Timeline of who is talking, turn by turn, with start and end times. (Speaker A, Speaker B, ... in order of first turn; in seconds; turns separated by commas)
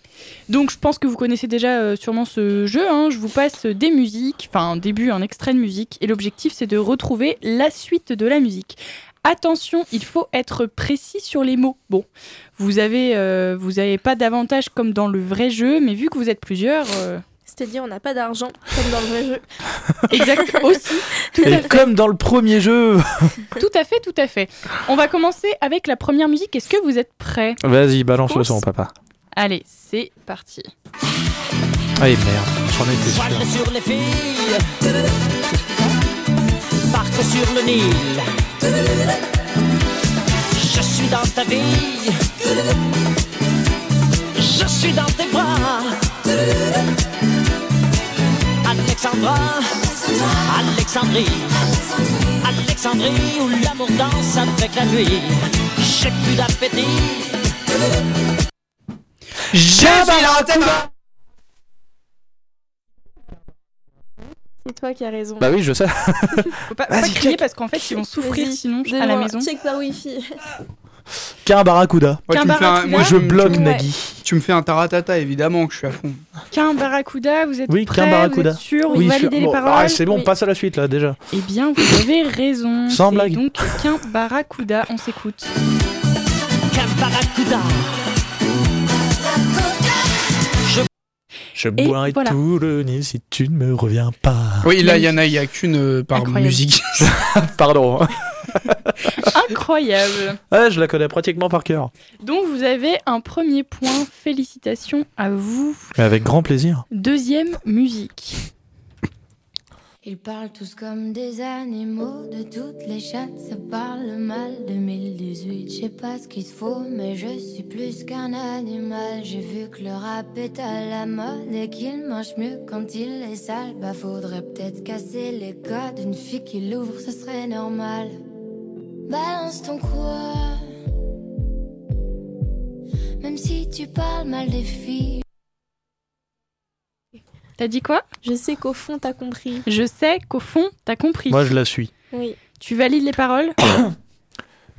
Speaker A: 0.5-17.2, Speaker B: 17.5-19.4, Speaker A: 20.1-21.8, Speaker C: 21.4-23.4, Speaker A: 23.6-27.6, Speaker C: 27.6-28.9, Speaker A: 28.3-28.6, Speaker A: 29.4-30.7, Speaker C: 32.0-33.5, Speaker D: 33.0-34.6, Speaker D: 36.9-38.2, Speaker D: 40.5-42.2, Speaker D: 44.4-46.0, Speaker D: 48.6-49.8, Speaker D: 50.4-51.6, Speaker D: 52.4-57.5, Speaker E: 59.5-60.7, Speaker C: 59.7-60.4, Speaker B: 64.6-65.5, Speaker C: 65.4-67.4, Speaker A: 66.7-69.5, Speaker B: 68.2-70.4, Speaker C: 71.4-72.2, Speaker E: 72.3-76.2, Speaker A: 72.3-73.2, Speaker C: 72.9-74.2, Speaker B: 73.5-73.8, Speaker A: 76.5-80.0, Speaker C: 77.7-81.2, Speaker A: 81.3-85.5, Speaker C: 82.9-83.7, Speaker D: 86.7-87.9, Speaker C: 91.5-94.7, Speaker A: 91.8-92.4, Speaker E: 94.6-97.1, Speaker A: 94.8-95.1, Speaker A: 96.1-96.6, Speaker C: 97.0-98.9, Speaker A: 99.2-100.4, Speaker C: 100.5-101.9, Speaker A: 102.2-105.9, Speaker C: 106.0-106.8, Speaker A: 106.9-108.4, Speaker F: 110.0-128.2, Speaker F: 129.1-130.7, Speaker F: 133.2-135.2, Speaker A: 137.6-138.0, Speaker B: 138.2-139.7, Speaker A: 139.7-141.5, Speaker C: 141.3-141.9, Speaker B: 142.1-142.4, Speaker A: 142.6-143.7